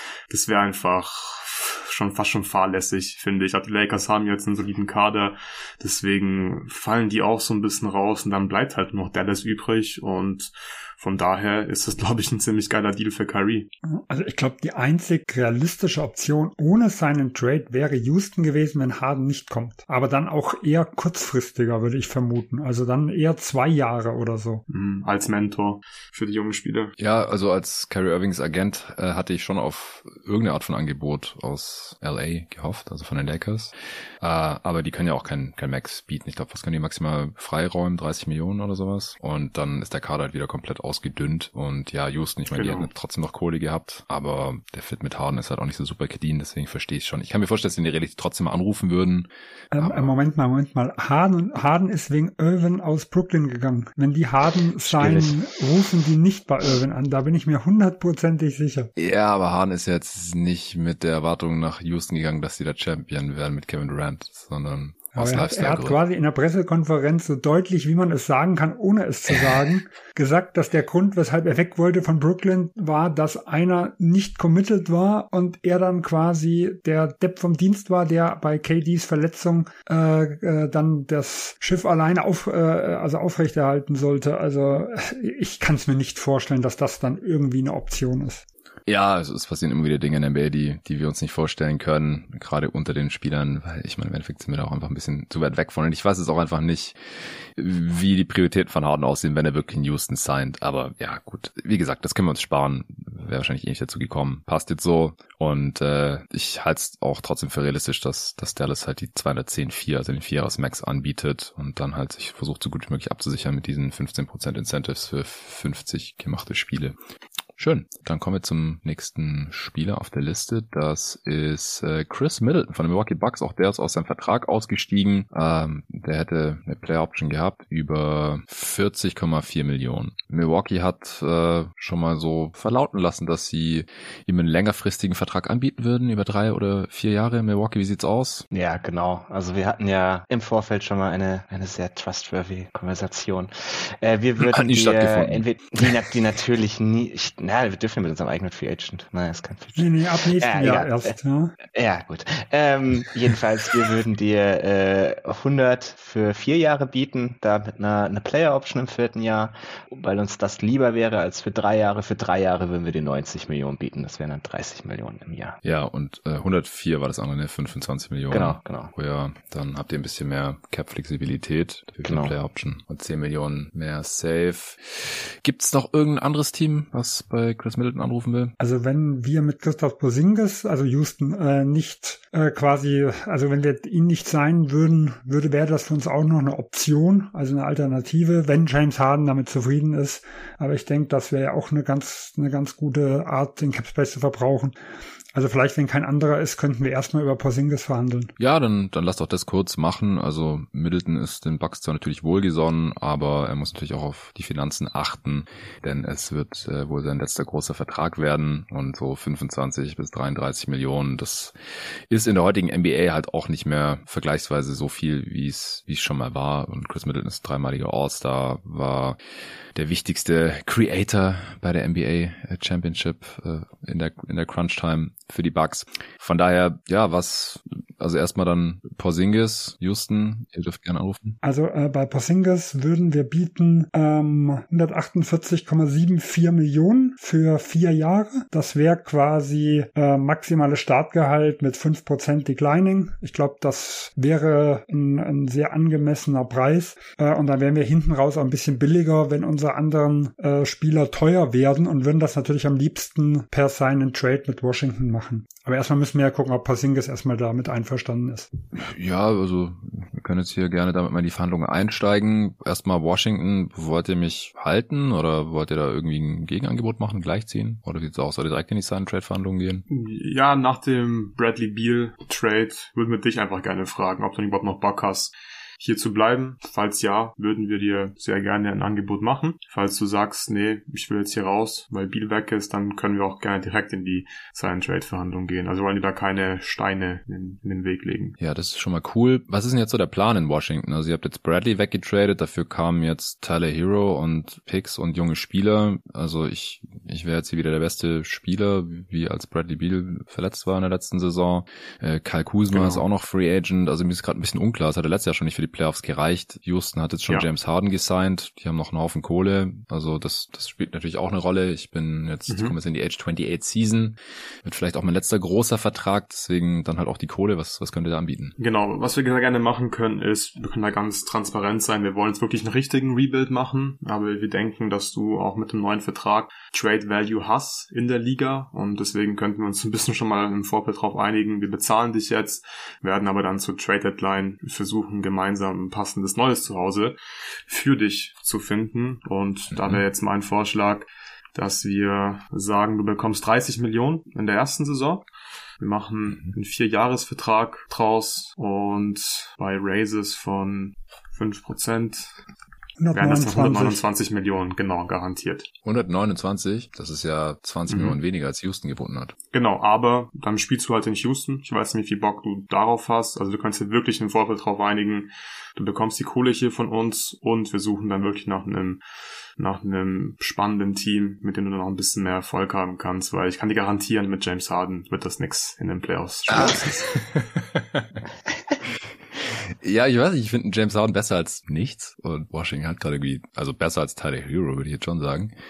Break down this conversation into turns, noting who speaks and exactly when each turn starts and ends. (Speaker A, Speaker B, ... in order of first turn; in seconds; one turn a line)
Speaker A: 0.3-13.7
Speaker B: 13.9-24.6
Speaker A: 24.7-26.9
Speaker C: 27.0-50.1
Speaker A: 42.5-42.9
Speaker B: 49.7-58.9
Speaker D: 54.9-55.4
Speaker C: 59.0-66.0
Speaker B: 65.1-88.5
Speaker C: 88.9-97.0
Speaker C: 97.5-117.0
Speaker C: 117.6-138.5
Speaker D: 138.5-151.1
Speaker C: 144.4-145.9
Speaker B: 149.8-151.6
Speaker D: 151.7-165.6
Speaker C: 165.6-178.5
Speaker D: 168.3-168.9
Speaker D: 172.1-172.3
Speaker B: 178.6-194.8
Speaker B: 195.3-198.3
Speaker C: 198.4-211.6
Speaker C: 212.1-219.2
Speaker C: 219.8-231.4
Speaker B: 231.4-258.5
Speaker C: 258.8-269.8
Speaker A: 269.9-288.4
Speaker C: 288.4-318.5
Speaker A: 302.7-303.0
Speaker A: 312.5-312.8
Speaker A: 318.6-345.2
Speaker C: 339.7-340.0
Speaker A: 345.8-352.3
Speaker B: 353.0-354.0
Speaker A: 353.1-355.7
Speaker C: 355.8-359.3
Speaker A: 357.9-358.2
Speaker A: 359.5-369.0
Speaker A: 369.6-377.2
Speaker C: 376.5-378.2
Speaker C: 379.4-385.5